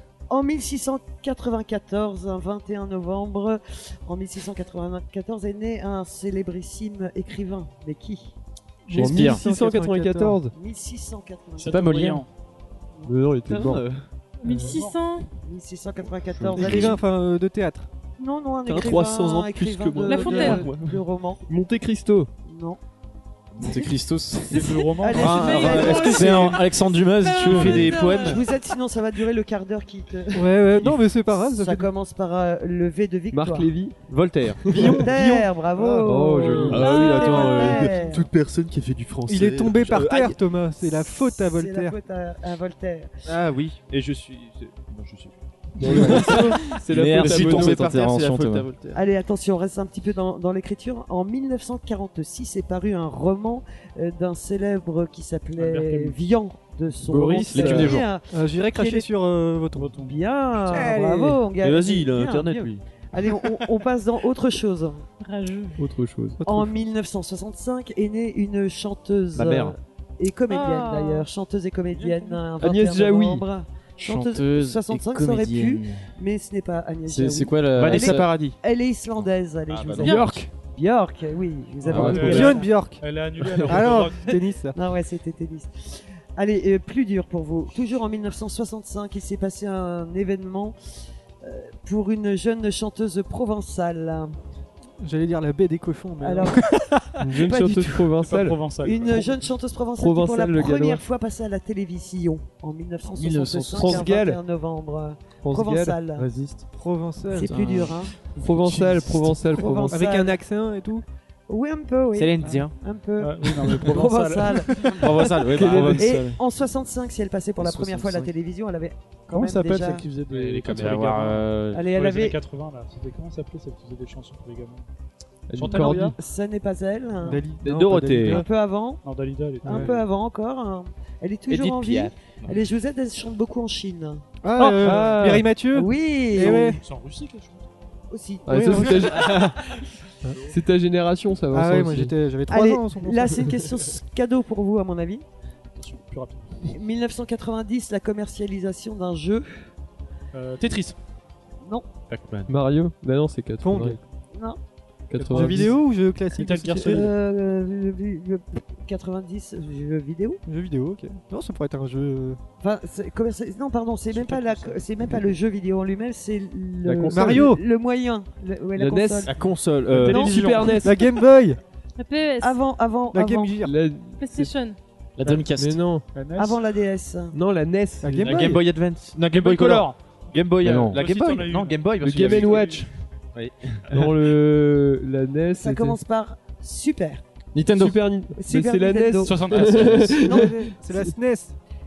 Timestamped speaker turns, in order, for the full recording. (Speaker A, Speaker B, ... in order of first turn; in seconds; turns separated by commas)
Speaker A: 0.3-8.3, Speaker B: 8.8-10.4, Speaker C: 8.9-10.5, Speaker D: 8.9-9.4, Speaker A: 10.5-12.2, Speaker E: 11.6-12.3, Speaker D: 11.6-12.2, Speaker C: 13.0-13.8, Speaker F: 13.5-14.0, Speaker G: 14.4-15.3, Speaker B: 14.4-14.8, Speaker E: 14.4-15.0, Speaker A: 15.4-17.0, Speaker F: 16.3-17.0, Speaker B: 16.5-17.9, Speaker A: 18.2-21.4, Speaker F: 18.6-21.0, Speaker G: 20.1-20.7, Speaker C: 21.5-22.3, Speaker A: 22.4-22.8, Speaker D: 23.6-24.8, Speaker E: 24.5-26.0, Speaker G: 24.5-26.6, Speaker A: 25.0-26.8, Speaker F: 25.2-26.6, Speaker D: 25.6-28.1, Speaker G: 27.1-28.4, Speaker F: 27.4-28.4, Speaker A: 28.2-33.9, Speaker B: 30.3-31.9, Speaker C: 33.3-34.0, Speaker F: 34.1-35.0, Speaker B: 34.7-36.0, Speaker A: 34.8-38.3, Speaker C: 36.0-37.0, Speaker F: 36.6-40.4, Speaker G: 36.8-37.8, Speaker B: 39.3-42.0, Speaker A: 40.8-43.1, Speaker F: 43.2-49.0, Speaker C: 45.8-47.9, Speaker B: 45.9-46.5, Speaker D: 46.0-48.7, Speaker A: 48.9-59.1, Speaker E: 55.6-56.2, Speaker E: 57.0-58.0, Speaker D: 57.5-58.1, Speaker B: 58.3-60.0, Speaker E: 59.8-60.9, Speaker A: 60.0-65.0, Speaker B: 60.7-61.4, Speaker F: 61.6-62.9, Speaker G: 65.2-65.8, Speaker C: 65.8-66.4, Speaker B: 66.4-66.9, Speaker A: 66.4-82.7, Speaker F: 69.3-69.8, Speaker G: 70.5-71.3, Speaker E: 71.9-72.4, Speaker C: 72.6-73.4, Speaker D: 74.0-76.0, Speaker D: 77.0-78.3, Speaker F: 77.7-78.6, Speaker F: 79.2-80.3, Speaker G: 80.0-80.4, Speaker D: 80.0-80.5, Speaker E: 81.8-84.4, Speaker B: 81.9-83.0, Speaker B: 83.6-84.8, Speaker A: 84.7-90.8, Speaker A: 91.4-94.3, Speaker B: 95.0-97.0, Speaker A: 96.2-98.0, Speaker C: 97.2-98.6, Speaker E: 98.0-99.3, Speaker A: 98.8-106.3, Speaker C: 100.0-101.0, Speaker D: 103.1-104.1, Speaker C: 103.7-104.4, Speaker C: 105.4-106.0, Speaker F: 106.2-106.6, Speaker B: 106.7-107.5, Speaker A: 107.3-108.1, Speaker D: 107.3-108.0, Speaker C: 108.3-110.0, Speaker A: 108.8-110.4, Speaker B: 109.9-111.0, Speaker A: 111.5-120.1, Speaker F: 112.1-112.7, Speaker E: 112.4-112.7, Speaker E: 113.2-115.0, Speaker F: 114.9-116.4, Speaker C: 115.5-116.3, Speaker D: 117.6-118.3, Speaker E: 119.3-124.9, Speaker F: 120.3-121.4, Speaker D: 120.7-121.8, Speaker A: 121.7-122.4, Speaker C: 125.5-126.2, Speaker E: 125.5-126.2, Speaker A: 125.6-127.5, Speaker B: 127.2-128.4, Speaker F: 127.6-128.4, Speaker A: 128.2-129.0, Speaker E: 129.0-130.0, Speaker A: 129.6-134.2, Speaker B: 129.6-129.9, Speaker F: 131.5-132.6, Speaker B: 134.4-136.8, Speaker C: 134.6-135.5, Speaker A: 135.7-136.8, Speaker E: 136.3-137.7, Speaker A: 138.1-139.5, Speaker C: 138.4-139.4, Speaker B: 138.5-139.6, Speaker C: 140.5-142.2, Speaker B: 141.5-143.5, Speaker A: 142.5-145.2, Speaker E: 145.7-146.7, Speaker A: 146.7-149.7, Speaker E: 150.3-151.0, Speaker F: 152.1-152.5, Speaker C: 152.5-154.0, Speaker B: 153.6-154.0, Speaker A: 154.3-154.6, Speaker C: 155.1-155.8, Speaker E: 155.2-157.1, Speaker B: 155.3-157.1, Speaker A: 156.8-160.4, Speaker B: 160.4-162.4, Speaker A: 162.6-169.4, Speaker C: 166.8-167.4, Speaker B: 167.1-167.6, Speaker C: 168.8-169.3, Speaker F: 169.2-170.7, Speaker E: 169.9-170.6, Speaker C: 170.0-170.9, Speaker A: 170.0-171.2, Speaker B: 170.8-171.6, Speaker G: 172.0-172.6, Speaker A: 172.4-173.6, Speaker B: 173.1-173.7, Speaker C: 173.6-174.5, Speaker G: 174.2-174.8, Speaker D: 175.2-175.8, Speaker C: 175.2-176.1, Speaker E: 176.1-176.6, Speaker A: 176.3-177.3, Speaker C: 177.3-178.6, Speaker B: 178.0-178.6, Speaker F: 178.2-184.1, Speaker E: 179.1-180.0, Speaker D: 180.6-181.0, Speaker E: 180.7-182.9, Speaker C: 182.0-182.8, Speaker C: 183.9-186.0, Speaker A: 185.5-187.2, Speaker D: 187.5-188.0, Speaker C: 187.7-190.6, Speaker A: 188.3-190.7, Speaker E: 189.2-190.3, Speaker B: 190.2-191.6